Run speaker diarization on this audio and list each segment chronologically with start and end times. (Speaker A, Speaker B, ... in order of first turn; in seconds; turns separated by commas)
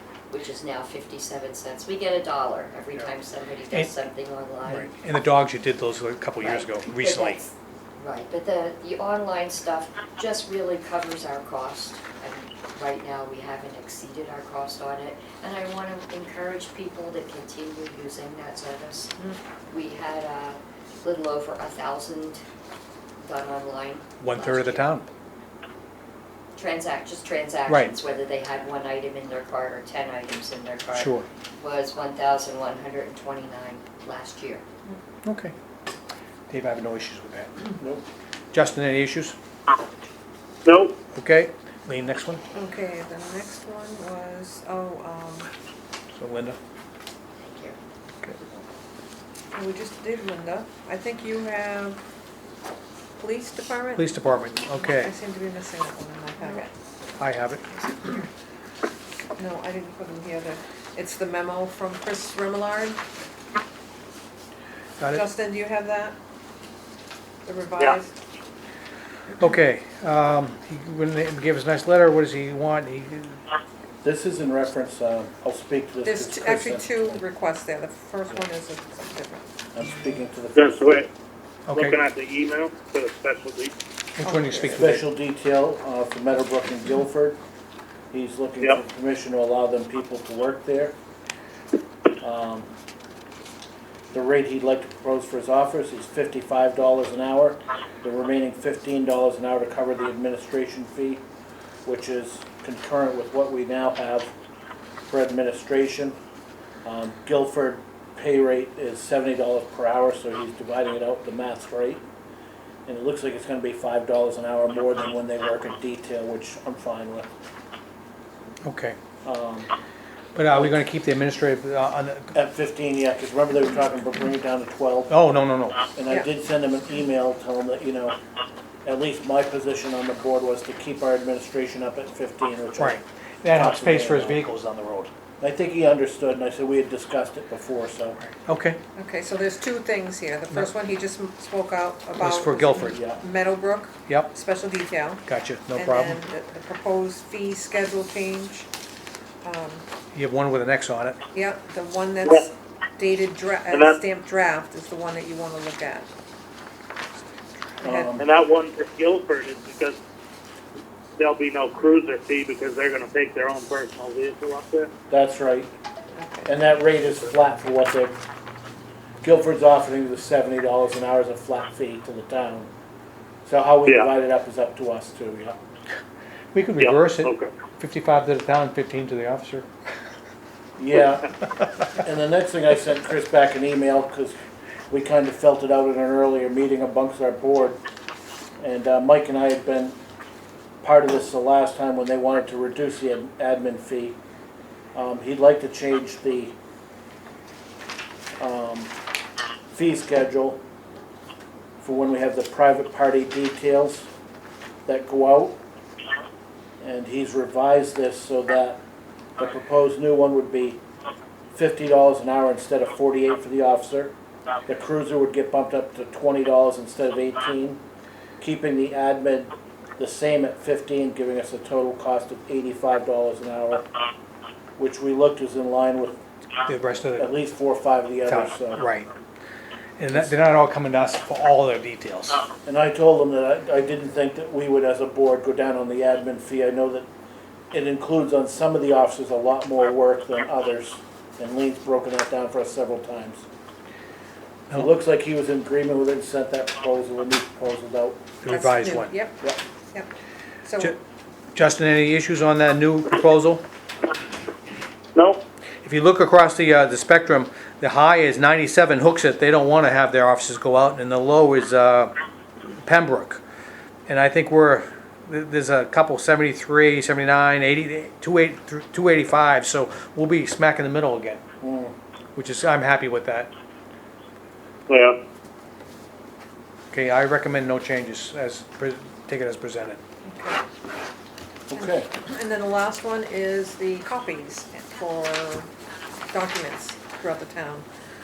Speaker A: 0.3-5.0, Speaker B: 4.6-7.4, Speaker A: 6.4-19.1, Speaker A: 19.7-22.4, Speaker A: 23.2-24.9, Speaker B: 24.2-25.1, Speaker A: 26.6-34.6, Speaker B: 27.7-27.9, Speaker B: 31.0-31.3, Speaker B: 35.2-35.5, Speaker B: 36.5-37.5, Speaker C: 37.8-38.0, Speaker B: 38.5-39.4, Speaker B: 41.1-42.4, Speaker D: 42.5-45.5, Speaker B: 46.2-46.6, Speaker A: 47.4-47.8, Speaker D: 49.5-52.0, Speaker D: 53.2-54.2, Speaker B: 54.0-55.1, Speaker D: 54.8-56.7, Speaker B: 57.2-57.7, Speaker D: 59.4-63.0, Speaker D: 65.1-66.2, Speaker D: 67.5-68.2, Speaker B: 69.4-73.4, Speaker C: 74.0-77.2, Speaker D: 76.0-79.5, Speaker C: 79.8-81.0, Speaker E: 81.7-83.1, Speaker D: 84.2-84.8, Speaker E: 84.2-84.7, Speaker B: 84.3-85.0, Speaker C: 84.7-87.4, Speaker C: 88.1-91.0, Speaker C: 92.2-92.7, Speaker C: 94.1-101.2, Speaker C: 101.8-104.3, Speaker C: 105.1-106.2, Speaker C: 106.8-112.0, Speaker C: 112.9-117.3, Speaker B: 118.7-119.0, Speaker C: 119.2-119.7, Speaker B: 120.3-122.3, Speaker C: 120.5-120.8, Speaker C: 122.3-125.2, Speaker B: 125.1-125.9, Speaker C: 126.0-128.2, Speaker C: 128.8-133.0, Speaker B: 132.8-135.1, Speaker C: 133.5-134.4, Speaker C: 135.4-138.2, Speaker B: 138.2-138.8, Speaker D: 139.0-148.7, Speaker E: 142.2-142.6, Speaker B: 142.4-143.0, Speaker C: 143.0-143.2, Speaker B: 145.4-146.1, Speaker D: 149.4-149.8, Speaker B: 150.2-151.2, Speaker D: 151.3-156.1, Speaker D: 157.8-158.1, Speaker C: 157.8-158.3, Speaker E: 158.4-159.9, Speaker E: 161.6-164.9, Speaker C: 165.1-165.7, Speaker D: 166.1-166.5, Speaker C: 166.4-168.2, Speaker C: 169.2-172.7, Speaker C: 173.5-175.6, Speaker B: 176.5-179.7, Speaker E: 176.8-177.5, Speaker C: 180.8-181.3, Speaker C: 182.0-184.4, Speaker C: 184.9-187.8, Speaker C: 188.6-190.0, Speaker C: 190.8-194.2, Speaker C: 194.9-196.6, Speaker C: 198.4-198.9, Speaker C: 199.7-200.6, Speaker C: 201.8-204.1, Speaker C: 204.9-205.6, Speaker C: 206.8-208.8, Speaker C: 209.4-210.8, Speaker C: 211.5-214.1, Speaker C: 214.7-217.8, Speaker C: 218.4-223.9, Speaker C: 224.8-226.2, Speaker B: 226.7-227.3, Speaker C: 227.2-228.9, Speaker B: 228.3-229.1, Speaker B: 230.0-232.4, Speaker C: 232.7-237.1, Speaker C: 237.7-243.4, Speaker C: 244.7-248.3, Speaker B: 248.4-249.1, Speaker D: 248.5-249.4, Speaker D: 250.7-250.9, Speaker B: 251.6-253.7, Speaker B: 255.8-262.1, Speaker B: 262.8-263.4, Speaker B: 264.1-271.4, Speaker C: 271.6-271.9, Speaker B: 272.4-273.5, Speaker B: 276.9-280.0, Speaker D: 280.2-280.6, Speaker C: 281.7-282.1, Speaker D: 281.7-285.7, Speaker D: 286.3-287.9